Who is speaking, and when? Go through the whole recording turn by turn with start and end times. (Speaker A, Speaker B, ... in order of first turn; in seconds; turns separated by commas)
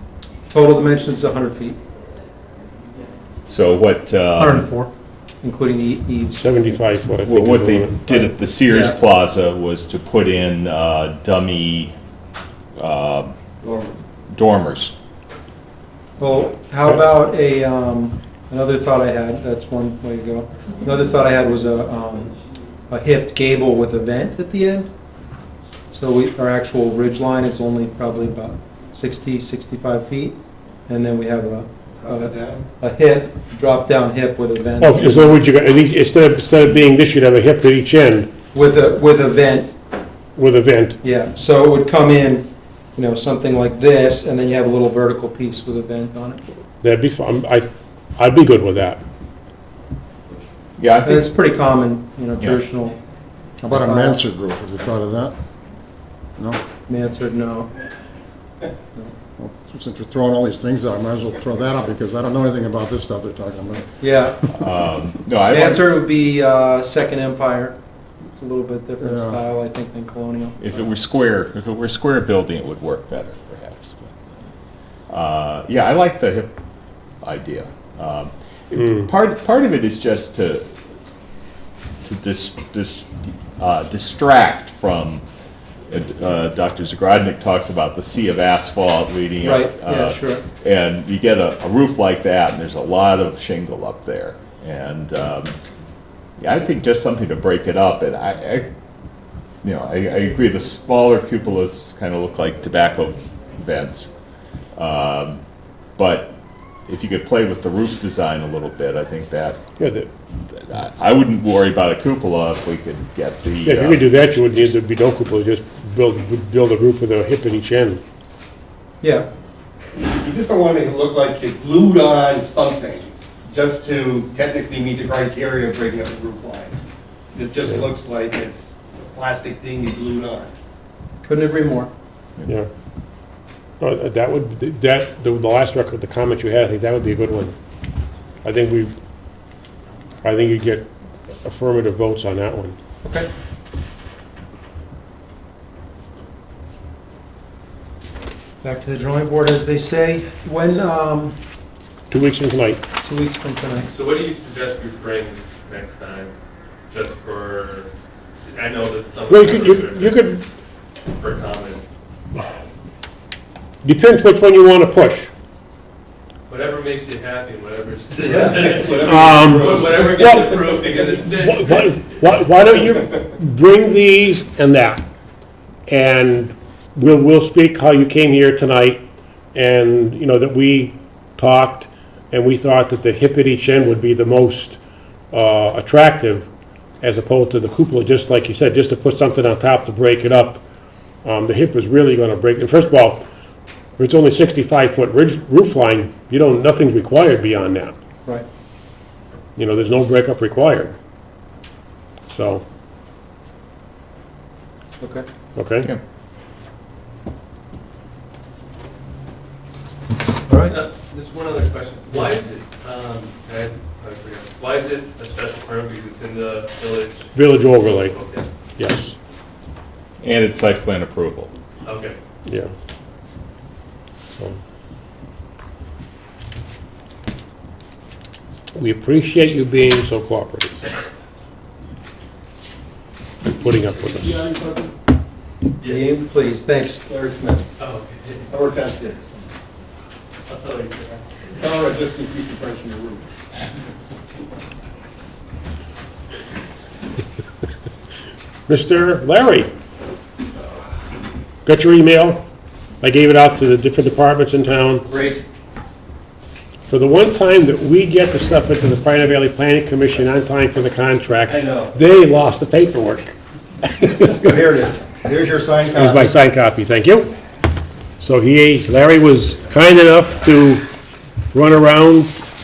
Speaker A: 0.5-1.8, Speaker B: 3.4-4.7, Speaker A: 4.4-4.9, Speaker A: 5.4-6.4, Speaker C: 6.3-8.0, Speaker B: 7.2-11.9, Speaker A: 8.1-8.9, Speaker B: 12.8-13.3, Speaker D: 13.6-14.0, Speaker B: 14.3-14.9, Speaker A: 16.2-22.3, Speaker A: 22.9-24.9, Speaker A: 25.9-35.4, Speaker D: 32.0-32.7, Speaker C: 34.8-38.3, Speaker A: 38.5-39.7, Speaker C: 40.4-41.0, Speaker A: 41.0-46.4, Speaker C: 46.8-49.0, Speaker B: 50.8-51.3, Speaker A: 51.0-53.0, Speaker A: 53.6-54.2, Speaker E: 53.7-55.3, Speaker E: 56.4-56.6, Speaker A: 56.9-57.7, Speaker E: 59.4-63.9, Speaker A: 64.0-64.4, Speaker B: 64.5-65.9, Speaker A: 65.5-70.6, Speaker E: 69.0-69.4, Speaker B: 70.6-74.4, Speaker B: 75.1-76.5, Speaker B: 77.2-80.7, Speaker C: 78.8-79.1, Speaker B: 82.0-85.2, Speaker B: 85.9-95.6, Speaker A: 89.4-90.4, Speaker B: 96.4-98.7, Speaker B: 99.6-104.1, Speaker B: 104.7-105.4, Speaker B: 106.0-106.3, Speaker B: 106.9-109.6, Speaker C: 109.8-110.1, Speaker B: 110.5-114.3, Speaker C: 113.6-118.0, Speaker A: 119.0-119.3, Speaker D: 120.0-126.8, Speaker D: 127.3-130.5, Speaker A: 131.2-131.9, Speaker C: 133.8-137.6, Speaker C: 138.4-138.9, Speaker C: 140.2-140.9, Speaker C: 141.4-142.8, Speaker A: 143.0-143.3, Speaker A: 148.6-151.3, Speaker C: 152.1-152.8, Speaker A: 153.0-153.9, Speaker F: 153.8-156.3, Speaker F: 156.9-157.9, Speaker F: 158.4-160.2, Speaker C: 159.3-160.4, Speaker F: 161.1-161.9, Speaker C: 163.8-165.3, Speaker F: 166.5-172.0, Speaker D: 168.3-169.9, Speaker C: 169.0-175.0, Speaker C: 175.9-184.8, Speaker C: 185.3-186.5, Speaker C: 187.0-190.6, Speaker C: 191.2-193.2, Speaker C: 194.0-197.9, Speaker C: 199.6-200.9, Speaker C: 202.3-202.6, Speaker A: 205.0-205.2, Speaker C: 205.6-205.9, Speaker A: 210.5-210.8, Speaker F: 210.7-217.3, Speaker C: 217.3-218.2, Speaker F: 217.9-218.5, Speaker C: 218.8-219.1, Speaker B: 220.2-221.5, Speaker F: 221.8-222.2, Speaker C: 222.4-222.7, Speaker C: 228.7-230.8, Speaker C: 233.4-234.5, Speaker D: 234.0-234.9, Speaker A: 235.8-237.0, Speaker D: 237.1-237.7, Speaker F: 237.8-238.5, Speaker D: 238.5-239.5, Speaker F: 240.5-241.4, Speaker D: 241.6-243.3, Speaker C: 248.7-249.7, Speaker C: 251.6-252.4, Speaker C: 253.0-255.0, Speaker D: 255.1-255.4, Speaker C: 256.9-264.4, Speaker D: 261.5-261.9, Speaker D: 264.2-266.3, Speaker C: 265.9-267.3, Speaker C: 268.2-270.8, Speaker C: 271.5-272.4